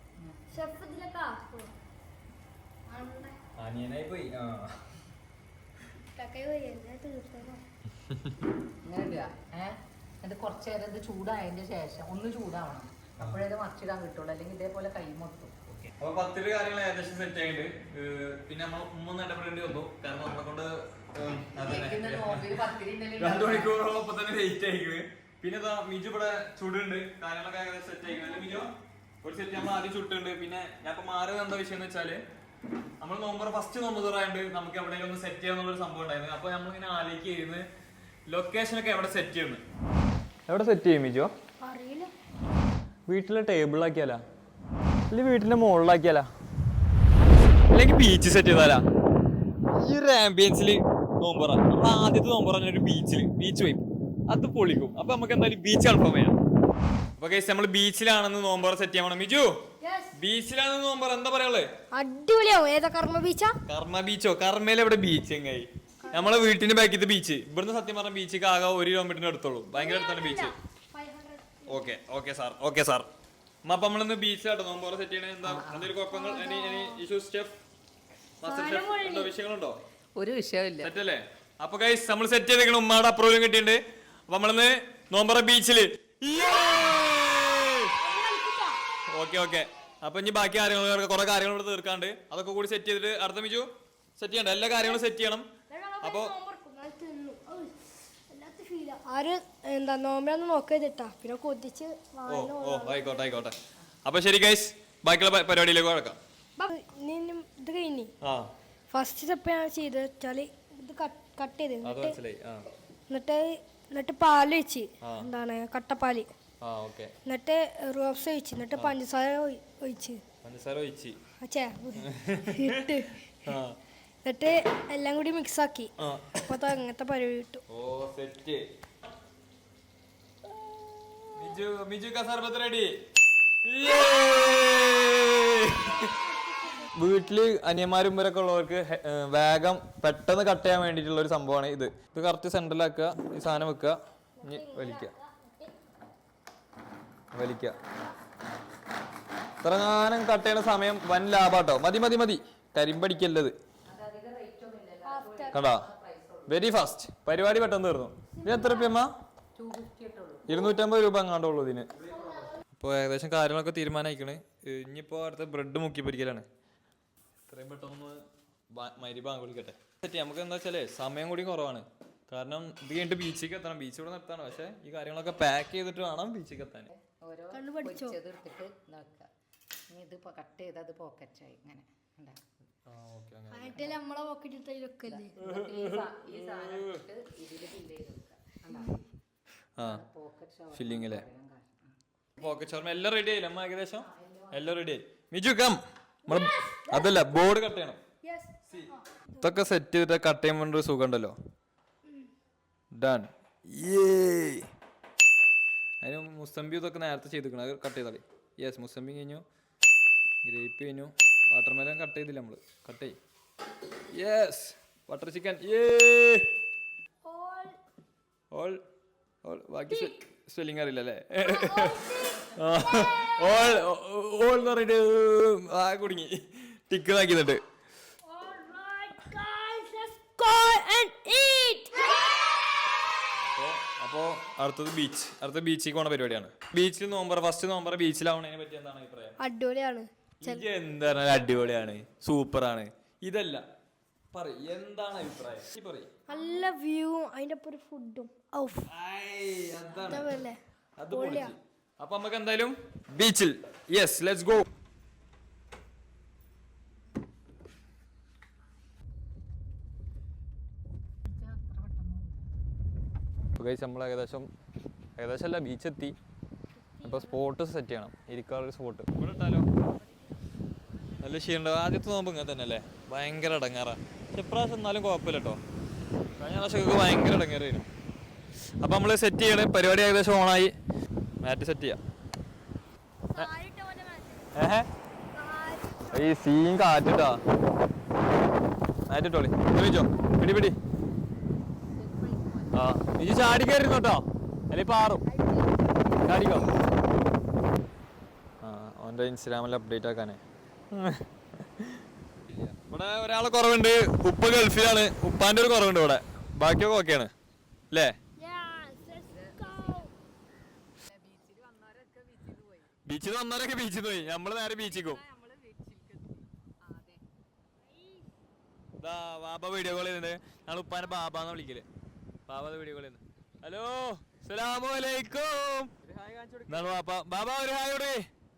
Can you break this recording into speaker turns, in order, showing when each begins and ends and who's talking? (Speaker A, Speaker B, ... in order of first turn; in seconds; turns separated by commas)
Speaker A: 0.5-1.7, Speaker A: 2.9-3.3, Speaker B: 3.6-4.8, Speaker A: 6.1-7.6, Speaker C: 8.8-15.5, Speaker B: 15.9-22.6, Speaker C: 21.2-23.7, Speaker B: 23.2-28.7, Speaker B: 29.2-32.2, Speaker B: 33.0-37.7, Speaker B: 38.3-39.6, Speaker B: 40.5-41.3, Speaker A: 41.6-42.1, Speaker B: 43.1-44.2, Speaker B: 45.1-46.3, Speaker B: 47.7-48.8, Speaker B: 49.7-56.3, Speaker B: 57.2-59.5, Speaker A: 59.8-60.1, Speaker B: 60.1-61.7, Speaker A: 61.9-63.5, Speaker B: 63.7-70.5, Speaker A: 66.0-66.4, Speaker A: 69.7-71.9, Speaker B: 71.7-73.1, Speaker B: 73.6-77.6, Speaker C: 75.4-75.9, Speaker A: 76.1-77.0, Speaker B: 78.4-79.8, Speaker A: 78.4-79.3, Speaker C: 80.2-80.9, Speaker B: 80.8-87.9, Speaker A: 86.3-87.0, Speaker A: 88.0-88.8, Speaker B: 89.1-95.5, Speaker A: 94.7-95.0, Speaker A: 95.7-103.1, Speaker B: 96.0-96.3, Speaker B: 102.3-106.2, Speaker A: 106.6-108.1, Speaker B: 108.2-108.5, Speaker A: 108.9-112.2, Speaker B: 111.8-112.7, Speaker A: 113.1-116.3, Speaker B: 115.0-115.3, Speaker B: 116.6-117.1, Speaker A: 117.2-120.2, Speaker B: 120.4-121.2, Speaker A: 121.4-123.2, Speaker B: 122.0-122.9, Speaker B: 123.4-123.8, Speaker A: 124.2-125.9, Speaker B: 126.0-126.4, Speaker A: 126.4-127.6, Speaker B: 127.7-128.7, Speaker A: 130.9-131.2, Speaker B: 131.3-132.9, Speaker B: 133.6-136.1, Speaker A: 136.1-136.9, Speaker B: 136.9-145.1, Speaker A: 144.4-145.7, Speaker B: 147.3-147.8, Speaker B: 149.6-153.5, Speaker C: 153.9-156.6, Speaker A: 155.0-155.6, Speaker B: 155.5-155.8, Speaker B: 156.5-159.1, Speaker A: 158.4-158.9, Speaker C: 159.5-160.6, Speaker B: 160.5-161.9, Speaker B: 162.7-166.4, Speaker B: 167.5-176.9, Speaker C: 176.9-179.3, Speaker A: 177.5-178.2, Speaker C: 179.9-182.4, Speaker B: 182.8-183.9, Speaker A: 183.5-185.4, Speaker C: 185.1-189.0, Speaker B: 185.4-187.0, Speaker B: 189.8-190.0, Speaker C: 189.8-191.9, Speaker B: 190.7-191.2, Speaker B: 192.4-198.0, Speaker C: 194.1-194.6, Speaker A: 196.3-197.1, Speaker A: 198.2-199.4, Speaker B: 199.4-201.3, Speaker B: 202.9-204.7, Speaker B: 206.0-209.4, Speaker B: 210.4-213.2, Speaker B: 214.1-216.4, Speaker A: 217.2-217.8, Speaker B: 218.5-218.8, Speaker B: 219.4-227.6, Speaker A: 219.9-220.1, Speaker A: 221.4-223.7, Speaker A: 228.3-232.2, Speaker B: 233.3-239.4, Speaker A: 239.4-240.6, Speaker B: 240.4-243.6, Speaker B: 244.3-246.1, Speaker A: 246.3-248.9, Speaker B: 248.9-250.4, Speaker A: 250.0-250.6, Speaker B: 251.0-254.7, Speaker A: 251.1-251.5, Speaker C: 261.3-262.4, Speaker B: 263.6-264.5, Speaker B: 265.2-266.1, Speaker A: 267.0-267.4, Speaker B: 267.0-269.7, Speaker B: 271.2-275.6, Speaker B: 276.4-277.9, Speaker B: 278.8-280.7, Speaker B: 281.4-282.0, Speaker A: 283.3-284.5, Speaker B: 284.5-284.9, Speaker A: 285.3-286.3, Speaker B: 286.1-287.4, Speaker B: 289.1-290.8, Speaker C: 291.9-292.8, Speaker B: 292.7-295.2, Speaker B: 296.2-296.7, Speaker B: 298.6-301.2, Speaker B: 302.9-307.3, Speaker B: 307.9-308.2, Speaker A: 308.4-310.1, Speaker C: 309.3-310.1, Speaker C: 311.0-312.9, Speaker B: 313.0-315.2, Speaker C: 314.3-317.2, Speaker B: 319.0-321.9, Speaker B: 322.5-325.9, Speaker B: 326.7-328.2